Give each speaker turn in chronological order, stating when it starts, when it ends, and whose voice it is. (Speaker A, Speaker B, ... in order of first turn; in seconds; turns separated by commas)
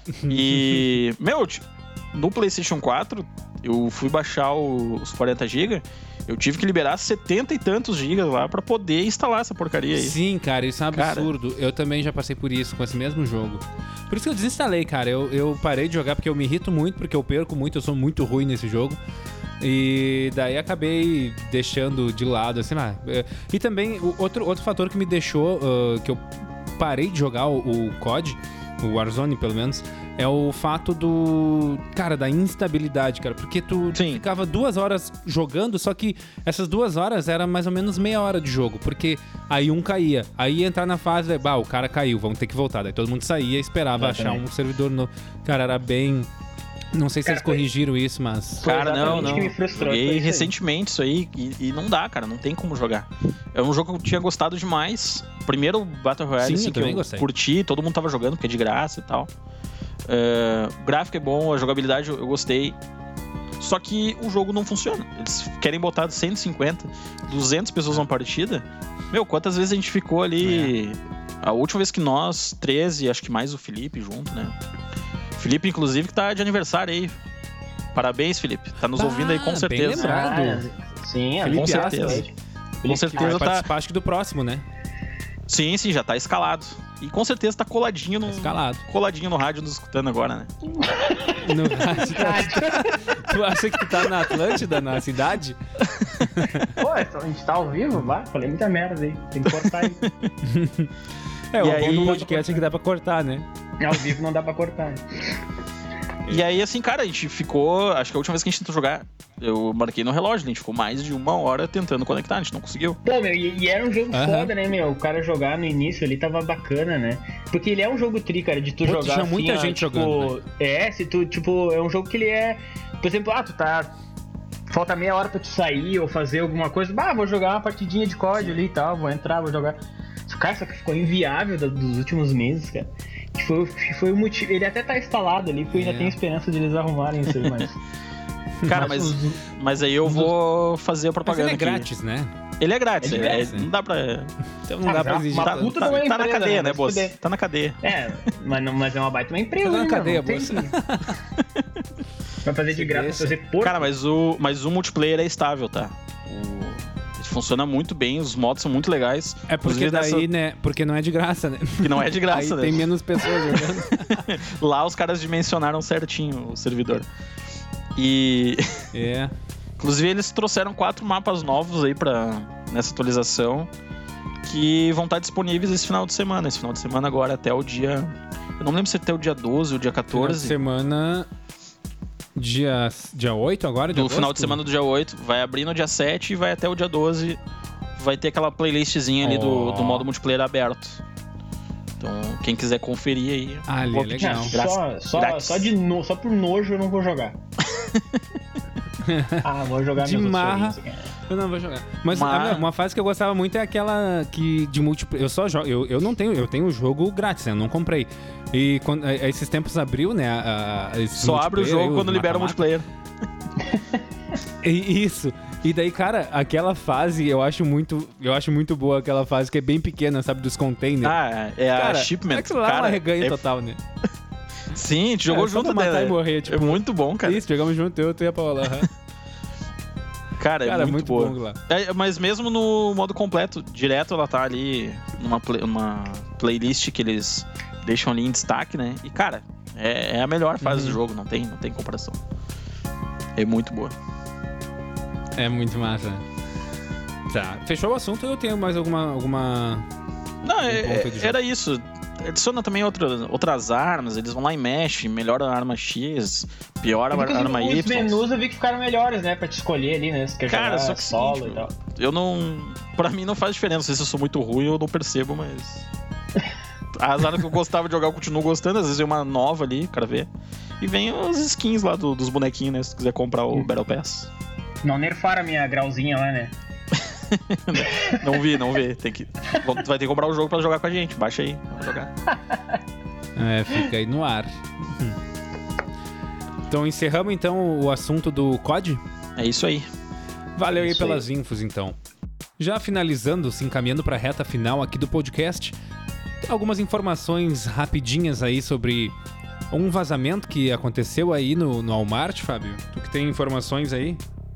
Speaker A: 0.2-0.8, Speaker B: 0.3-10.1, Speaker A: 9.9-19.0, Speaker B: 10.9-11.3, Speaker A: 19.6-26.2, Speaker A: 26.8-46.3, Speaker B: 34.0-34.2, Speaker C: 43.9-44.5, Speaker A: 46.9-49.5, Speaker C: 47.3-47.6, Speaker C: 48.6-50.5, Speaker B: 48.6-59.3, Speaker A: 56.4-57.3, Speaker B: 60.1-62.8, Speaker B: 63.6-74.5, Speaker A: 70.4-70.7, Speaker B: 75.3-77.2, Speaker B: 77.9-80.3, Speaker A: 79.0-80.7, Speaker C: 79.9-82.3, Speaker A: 81.4-82.2, Speaker B: 81.4-82.2, Speaker C: 82.8-83.5, Speaker B: 82.8-83.7, Speaker A: 83.2-84.6, Speaker B: 85.5-90.5, Speaker A: 88.3-88.8, Speaker C: 90.8-93.0, Speaker A: 91.4-95.6, Speaker A: 96.1-96.7, Speaker C: 96.7-100.0, Speaker B: 99.5-100.1, Speaker A: 100.4-100.9, Speaker A: 101.5-103.5, Speaker B: 101.6-102.3, Speaker C: 101.7-102.6, Speaker C: 103.8-105.3, Speaker B: 106.3-113.0, Speaker C: 113.0-123.9, Speaker A: 114.1-114.5, Speaker A: 118.8-120.4, Speaker C: 124.7-137.8, Speaker A: 135.7-136.2, Speaker B: 138.7-141.9, Speaker C: 138.7-139.4, Speaker C: 140.1-140.3, Speaker A: 141.3-142.3, Speaker B: 142.6-144.3, Speaker C: 143.0-143.6, Speaker A: 143.1-143.7, Speaker A: 144.6-145.8, Speaker C: 144.9-147.2, Speaker B: 145.4-147.8, Speaker C: 147.8-150.8, Speaker A: 149.6-151.2, Speaker C: 152.4-153.9, Speaker A: 152.7-153.4, Speaker B: 153.6-160.3, Speaker A: 159.5-164.2, Speaker B: 161.8-167.1, Speaker B: 167.9-168.8, Speaker A: 168.9-169.3, Speaker B: 169.8-173.7, Speaker B: 174.4-180.6, Speaker A: 180.1-181.3, Speaker A: 182.4-184.6, Speaker B: 183.9-187.4, Speaker B: 188.0-191.0, Speaker A: 189.2-190.1, Speaker B: 192.0-195.7, Speaker A: 193.7-194.6, Speaker C: 194.2-197.4, Speaker B: 197.6-198.2, Speaker A: 199.0-199.4, Speaker C: 199.4-201.1, Speaker A: 200.0-200.8, Speaker A: 201.3-212.6, Speaker B: 202.1-202.7, Speaker B: 211.2-212.9, Speaker A: 214.6-221.2, Speaker B: 221.0-223.4, Speaker A: 221.7-223.8, Speaker B: 224.7-227.4, Speaker A: 225.3-228.9, Speaker B: 230.4-242.2, Speaker A: 230.6-231.6, Speaker A: 240.6-241.0, Speaker B: 243.4-243.9, Speaker A: 245.3-246.2, Speaker A: 247.3-249.8, Speaker B: 250.4-258.2, Speaker A: 250.6-251.3, Speaker C: 257.1-261.7, Speaker B: 260.5-265.9, Speaker B: 266.9-274.3, Speaker C: 274.8-276.5, Speaker B: 276.9-282.1, Speaker C: 277.9-278.2, Speaker A: 283.4-285.2, Speaker A: 286.7-289.0, Speaker B: 289.4-289.9, Speaker A: 290.6-292.0, Speaker C: 290.8-291.2, Speaker A: 292.6-295.7, Speaker A: 296.4-299.1, Speaker A: 299.7-304.2